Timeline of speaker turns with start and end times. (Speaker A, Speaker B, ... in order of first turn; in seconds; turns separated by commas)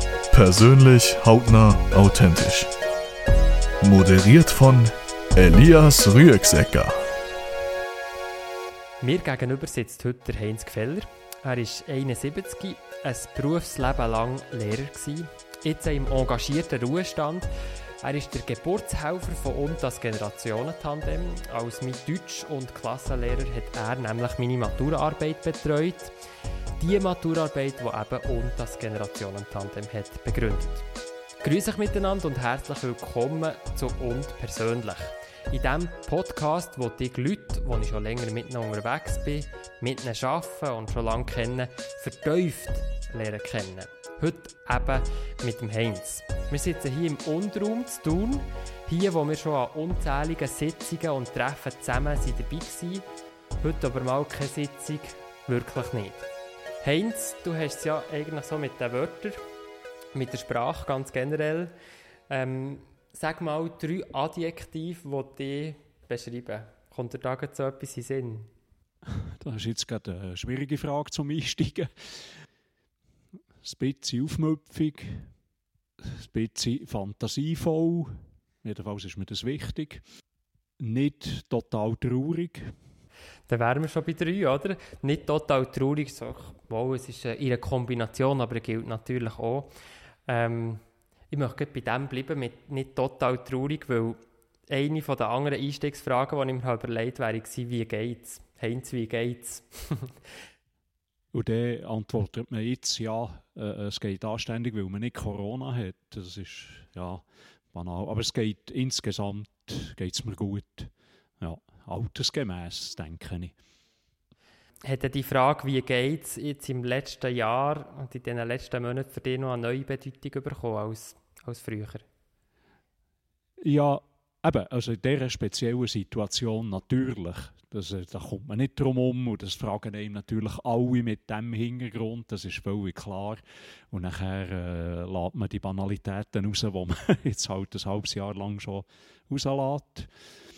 Speaker A: 0.3-2.7, Speaker A: 3.8-7.0, Speaker B: 9.0-17.5, Speaker B: 18.0-26.1, Speaker B: 26.8-30.8, Speaker B: 31.4-53.0, Speaker B: 53.6-56.3, Speaker B: 56.8-59.4, Speaker B: 60.1-61.7, Speaker B: 62.3-68.5, Speaker C: 69.0-72.4, Speaker C: 73.6-75.3, Speaker C: 76.0-80.0, Speaker C: 80.8-82.7, Speaker B: 83.5-89.7, Speaker B: 90.3-100.2, Speaker C: 101.3-113.5, Speaker B: 114.8-122.0, Speaker C: 123.6-140.1